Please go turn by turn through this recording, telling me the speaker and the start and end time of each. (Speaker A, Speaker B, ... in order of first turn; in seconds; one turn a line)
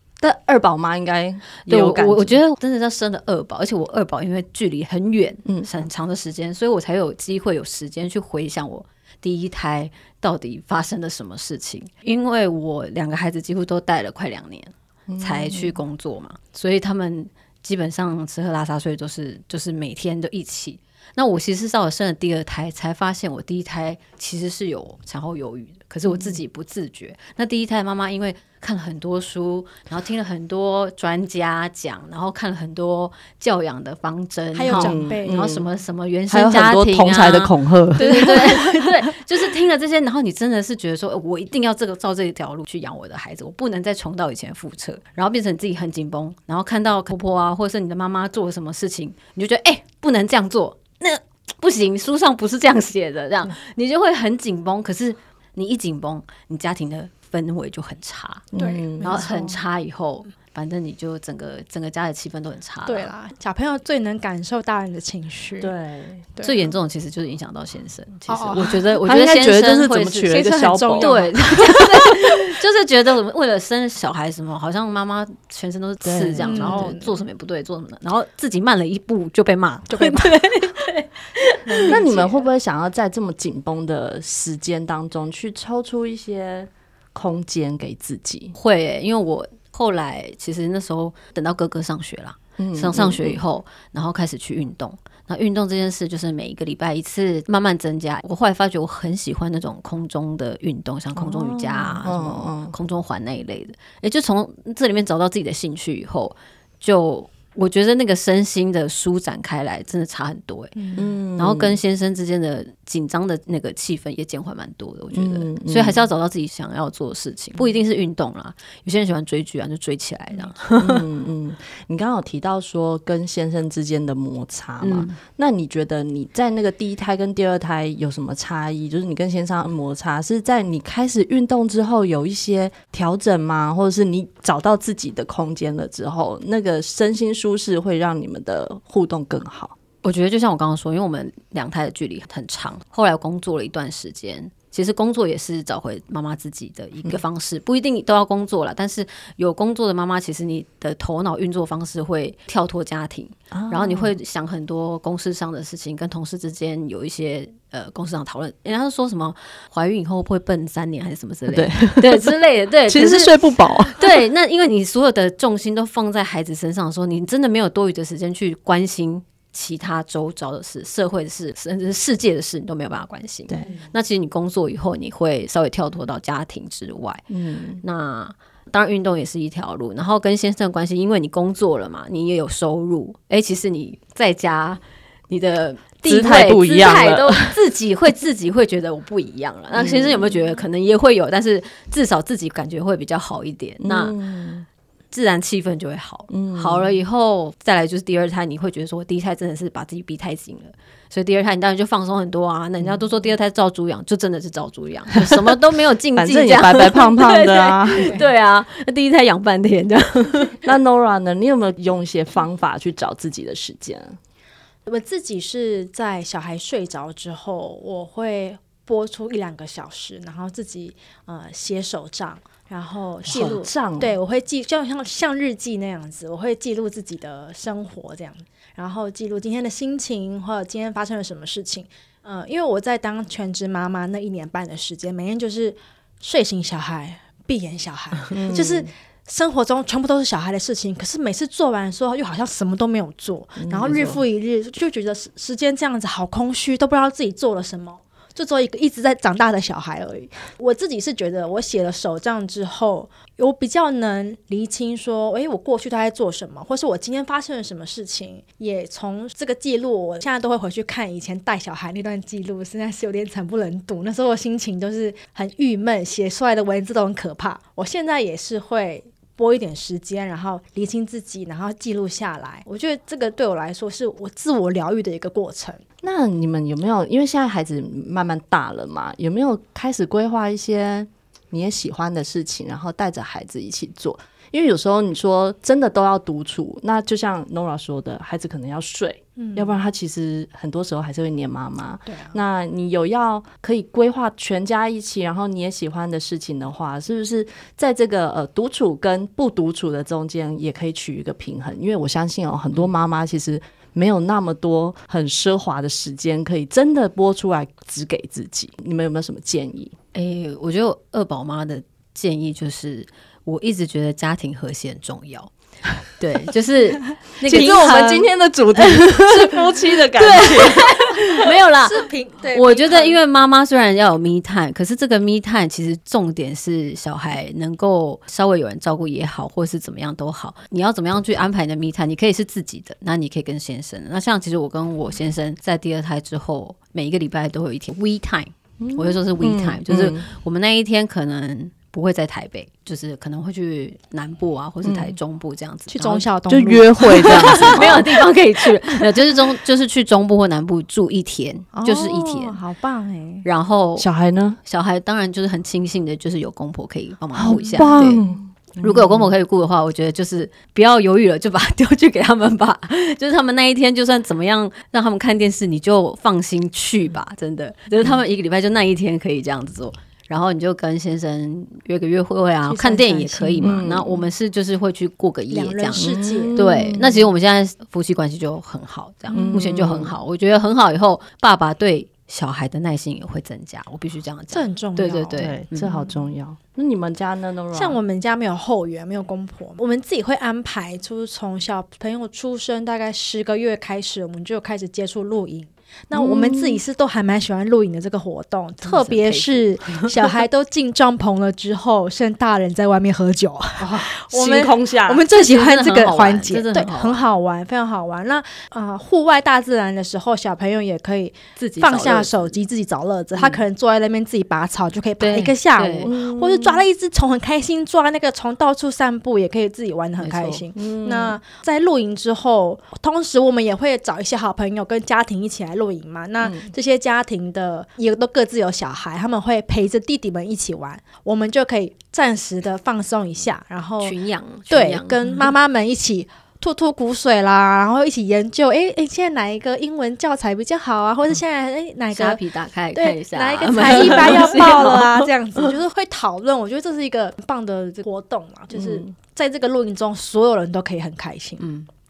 Speaker A: 0.2-2.4
Speaker B: 1.6-58.5
Speaker A: 15.1-15.8
Speaker A: 26.0-26.4
Speaker C: 34.5-35.5
Speaker A: 34.7-35.7
Speaker A: 36.3-38.5
Speaker C: 38.0-38.8
Speaker A: 58.5-59.2
Speaker C: 58.5-59.6
Speaker B: 59.0-63.1
Speaker C: 62.9-65.7
Speaker A: 65.6-66.3
Speaker C: 66.3-66.8
Speaker B: 66.4-70.3
Speaker C: 68.3-68.8
Speaker A: 69.0-71.1
Speaker C: 70.3-71.9
Speaker B: 70.9-81.9
Speaker A: 76.0-76.9
Speaker C: 76.4-77.2
Speaker C: 79.9-80.5
Speaker C: 81.7-82.5
Speaker A: 81.9-88.5
Speaker B: 88.5-121.0
Speaker A: 92.6-93.4
Speaker A: 101.2-102.8
Speaker C: 110.7-111.1
Speaker A: 110.9-111.8
Speaker A: 115.1-116.1
Speaker C: 120.3-120.6
Speaker A: 120.8-139.7
Speaker B: 124.8-125.2
Speaker B: 140.0-177.2
Speaker A: 153.5-154.1
Speaker A: 161.4-162.3
Speaker A: 162.8-164.1
Speaker A: 173.5-173.8
Speaker A: 177.3-177.8
Speaker B: 177.8-194.2
Speaker A: 186.0-187.6
Speaker A: 189.7-190.6
Speaker A: 193.8-194.7
Speaker B: 195.1-210.7
Speaker A: 196.3-196.9
Speaker A: 206.1-208.2
Speaker A: 210.6-214.2
Speaker C: 214.8-275.8
Speaker A: 223.2-224.1
Speaker A: 238.3-238.9
Speaker A: 243.6-244.2
Speaker A: 276.0-309.9
Speaker C: 289.4-289.8
Speaker C: 292.1-292.4
Speaker B: 310.1-315.5
Speaker B: 316.0-346.3
Speaker A: 317.4-320.8
Speaker C: 317.5-318.0
Speaker C: 321.7-323.2
Speaker A: 338.8-340.2
Speaker A: 344.8-345.1
Speaker C: 345.9-348.2
Speaker A: 346.5-348.0
Speaker B: 347.2-352.6
Speaker C: 351.7-353.4
Speaker B: 353.4-354.1
Speaker A: 354.0-354.6
Speaker B: 354.6-358.2
Speaker A: 357.3-359.3
Speaker C: 357.5-358.2
Speaker B: 358.8-385.9
Speaker A: 368.0-368.2
Speaker C: 372.6-373.7
Speaker A: 373.6-374.2
Speaker C: 375.5-376.6
Speaker A: 375.9-377.3
Speaker C: 379.3-379.6
Speaker A: 379.3-380.1
Speaker C: 384.5-386.2
Speaker A: 385.4-388.0
Speaker C: 387.7-451.6
Speaker A: 396.1-396.8
Speaker B: 398.8-400.1
Speaker A: 403.8-405.2
Speaker B: 405.3-407.2
Speaker B: 411.6-412.5
Speaker B: 415.2-416.1
Speaker A: 416.0-416.8
Speaker A: 420.2-421.4
Speaker A: 426.4-426.7
Speaker B: 434.0-435.3
Speaker B: 442.1-445.0
Speaker A: 444.1-444.9
Speaker A: 448.7-449.1
Speaker B: 451.6-451.9